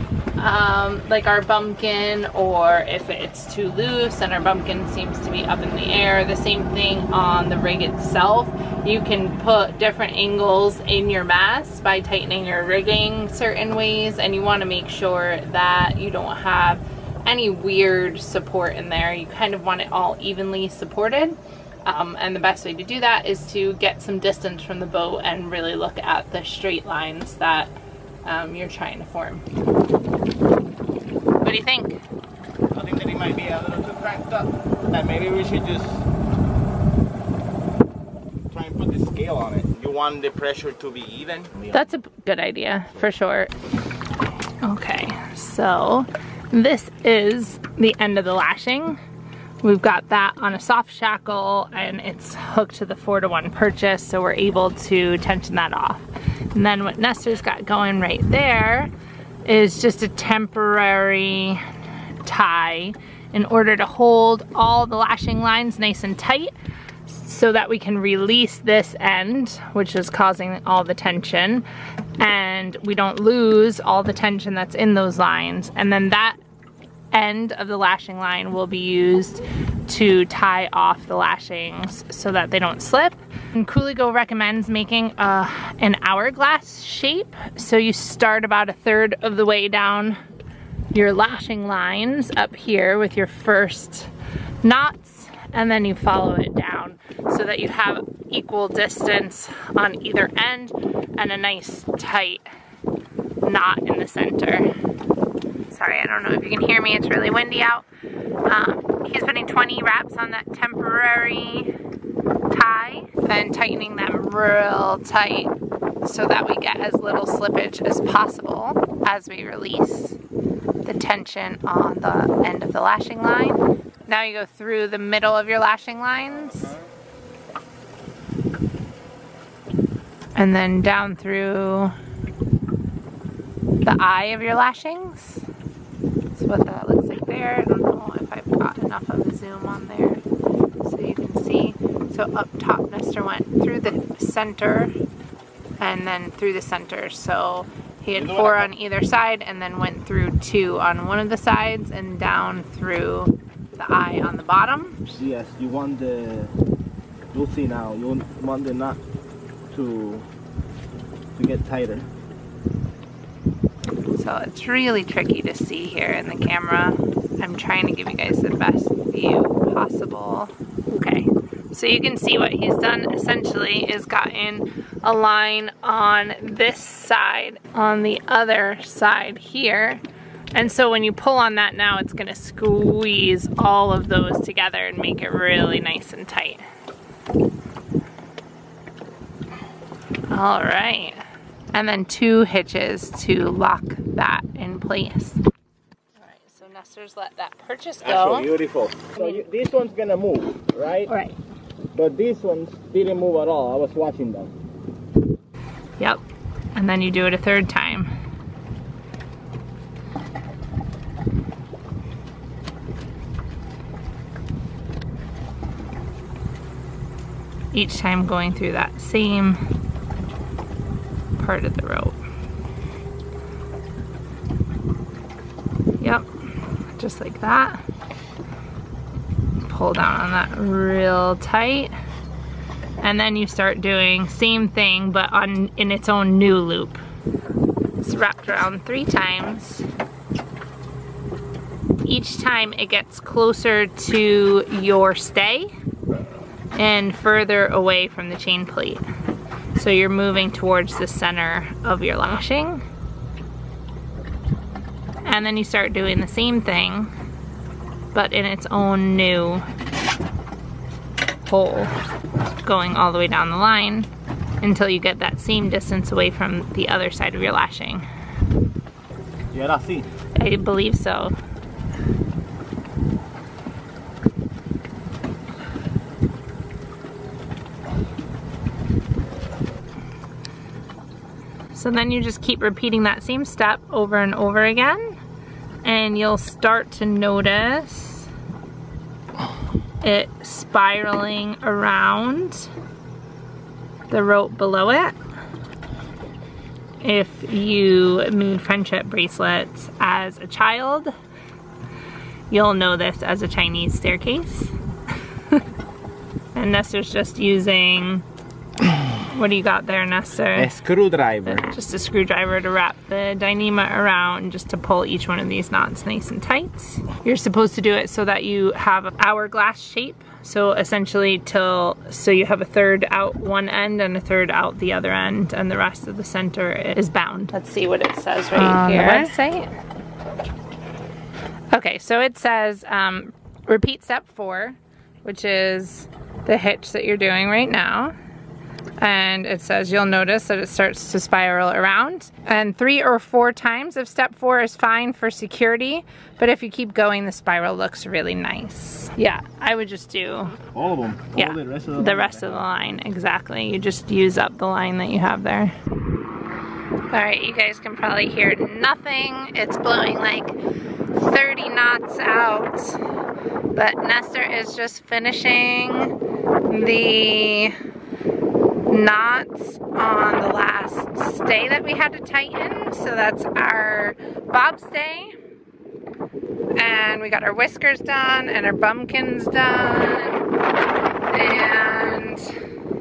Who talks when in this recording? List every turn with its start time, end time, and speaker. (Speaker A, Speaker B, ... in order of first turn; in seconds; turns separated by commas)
Speaker A: 0.4-27.7, Speaker A: 28.2-29.4, Speaker A: 31.4-32.0, Speaker B: 32.7-36.0, Speaker B: 38.5-41.9, Speaker A: 41.7-43.5, Speaker A: 44.6-49.0, Speaker A: 49.6-58.9, Speaker A: 59.4-61.6, Speaker A: 62.2-66.5, Speaker A: 67.1-71.7, Speaker A: 72.2-76.4, Speaker A: 77.1-90.2, Speaker A: 90.9-94.1, Speaker A: 94.6-102.5, Speaker A: 103.4-104.7, Speaker A: 105.7-107.8, Speaker A: 108.5-111.7, Speaker A: 112.5-120.2, Speaker A: 120.8-126.7, Speaker B: 126.4-126.8, Speaker A: 130.3-131.9, Speaker A: 133.8-135.4, Speaker A: 136.3-140.2, Speaker A: 140.8-144.9, Speaker A: 145.8-155.2, Speaker B: 148.1-148.7, Speaker B: 155.2-156.5, Speaker B: 157.3-159.0, Speaker B: 159.7-160.3, Speaker B: 161.3-162.1, Speaker A: 164.1-180.0, Speaker A: 180.5-186.7, Speaker A: 190.3-191.2, Speaker A: 191.7-195.4, Speaker A: 196.2-198.5, Speaker B: 198.0-201.1, Speaker A: 201.1-201.3, Speaker B: 201.9-204.5, Speaker A: 206.7-208.1, Speaker A: 217.7-219.6, Speaker A: 221.3-222.2, Speaker A: 226.0-226.2, Speaker A: 227.0-227.8, Speaker A: 229.6-231.9, Speaker A: 233.0-237.0, Speaker A: 238.0-239.8, Speaker A: 242.0-245.7, Speaker A: 246.8-249.0, Speaker A: 249.7-252.8, Speaker A: 255.2-257.1, Speaker A: 258.1-259.6, Speaker A: 261.4-261.9, Speaker A: 262.6-264.1, Speaker A: 264.6-268.1, Speaker B: 269.5-270.1, Speaker A: 270.4-271.4, Speaker A: 281.7-285.1, Speaker A: 285.8-288.3, Speaker A: 290.0-292.7, Speaker A: 294.1-295.1, Speaker A: 297.0-301.1, Speaker A: 302.5-304.7, Speaker A: 306.5-308.2, Speaker A: 309.2-310.8, Speaker B: 310.5-311.7, Speaker A: 311.5-329.7, Speaker B: 328.6-329.3, Speaker A: 331.7-338.1, Speaker A: 339.0-350.6, Speaker B: 350.7-352.8, Speaker A: 351.4-355.7, Speaker A: 357.1-360.6, Speaker A: 361.1-363.0, Speaker A: 363.7-366.1, Speaker A: 366.7-367.7, Speaker A: 368.9-375.3, Speaker A: 376.8-380.5, Speaker A: 381.3-382.5